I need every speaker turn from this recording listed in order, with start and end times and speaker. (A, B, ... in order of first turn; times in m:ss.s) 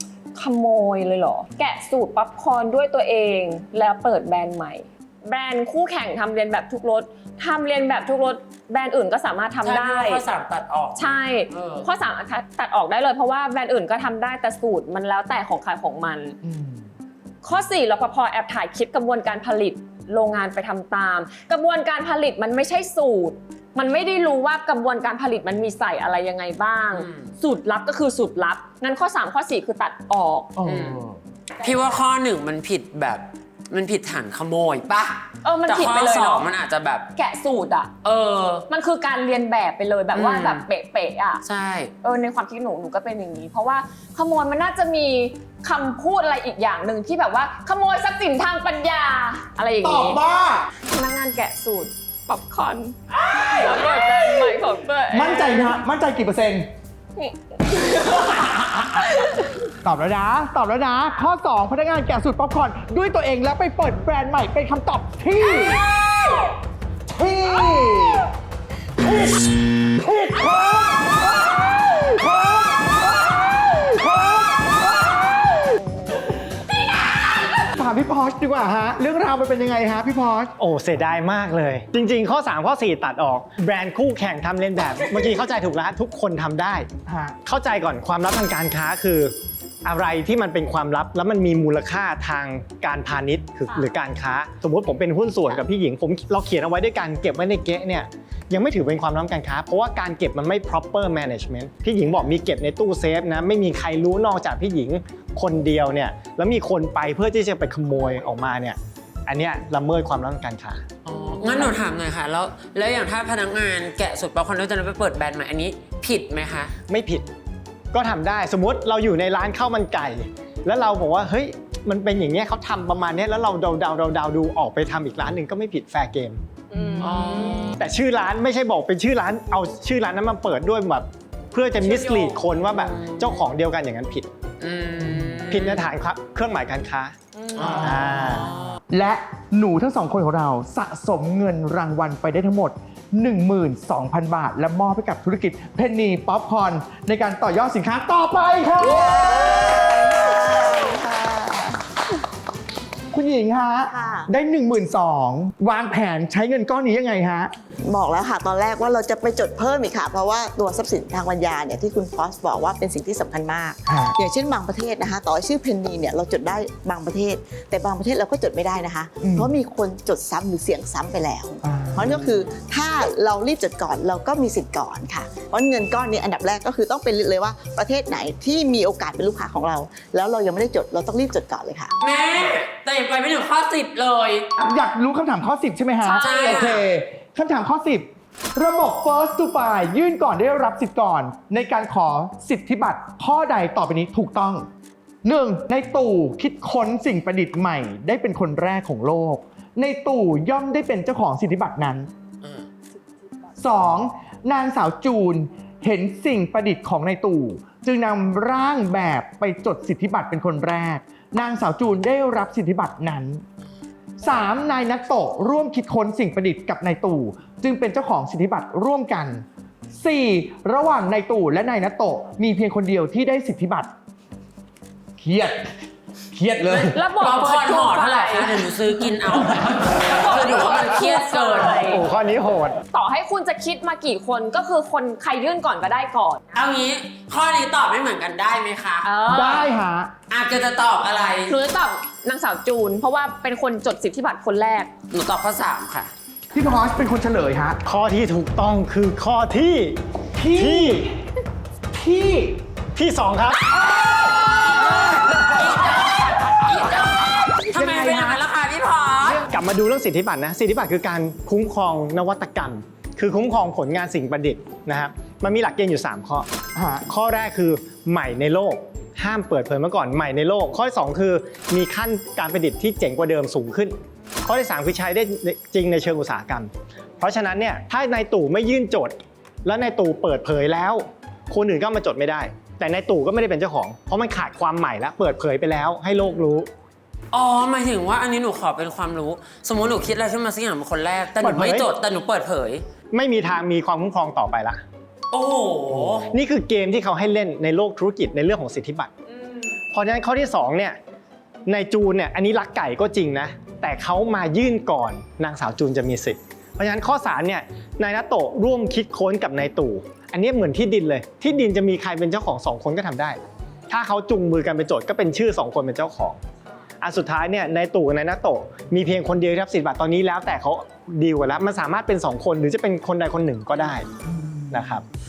0:00.3-0:10.2 A
0:09.6-0:11.8 B
0:11.0-0:16.4 A
0:16.4-0:16.9 C
0:17.4-0:30.6 A
0:26.9-0:27.3 B
0:30.6-0:31.2 C
0:30.6-0:31.0 B
0:31.6-0:37.1 B
0:35.4-0:36.5 A
0:37.1-0:37.9 A
0:38.0-0:38.6 B
0:38.7-0:41.4 A
0:40.1-0:40.6 B
0:41.4-0:41.9 B
0:42.0-0:50.2 A
0:49.8-0:50.6 C
0:50.9-0:55.7 A
0:55.1-0:56.6 C
0:57.2-0:59.6 A
0:58.7-0:59.0 C
0:59.8-1:05.8 C
1:07.1-1:08.2 C
1:09.0-1:16.0 C
1:16.8-1:17.6 A
1:17.7-1:20.5 C
1:20.6-1:26.9 D
1:27.0-1:27.4 C
1:27.4-1:50.8 D
1:51.0-1:56.7 B
1:56.9-1:57.3 D
1:57.9-2:06.4 D
2:06.7-2:07.7 A
2:07.0-2:07.8 B
2:07.7-2:14.3 D
2:11.8-2:13.4 B
2:14.6-2:15.8 B
2:15.5-2:18.5 D
2:17.6-2:18.8 B
2:18.9-2:30.0 C
2:28.8-2:31.8 E
2:33.1-2:37.5 C
2:33.9-2:34.3 E
2:37.8-3:01.9 E
2:43.9-2:44.2 C
2:49.2-2:49.5 C
2:51.6-2:52.2 C
3:02.0-3:04.5 B
3:04.6-3:14.7 C
3:06.0-3:06.8 A
3:06.2-3:06.8 B
3:15.2-3:22.1 C
3:23.6-3:33.4 C
3:34.2-3:43.9 C
3:45.2-3:45.7 C
3:46.3-3:47.0 C
3:46.7-3:51.9 B
3:46.9-3:49.1 A
3:50.0-3:52.0 A
3:51.8-3:52.8 D
3:52.9-3:56.5 A
3:56.5-3:59.0 B
3:59.0-3:59.7 A
3:59.3-4:00.1 C
4:00.3-4:01.5 B
4:01.5-4:04.9 A
4:05.1-4:06.1 B
4:06.5-4:07.8 C
4:07.8-4:11.1 D
4:10.4-4:11.1 C
4:11.9-4:12.6 C
4:12.9-4:13.7 D
4:14.0-4:18.4 C
4:14.6-4:19.4 B
4:19.4-4:26.5 D
4:26.7-4:27.0 C
4:27.1-4:46.7 D
4:47.3-4:52.8 B
4:51.4-4:51.9 C
4:53.1-4:54.8 D
4:55.3-4:56.3 B
4:56.2-4:59.1 D
4:59.9-5:01.0 D
5:01.6-5:16.4 D
5:17.0-5:24.1 D
5:24.3-5:24.7 C
5:24.7-5:25.0 D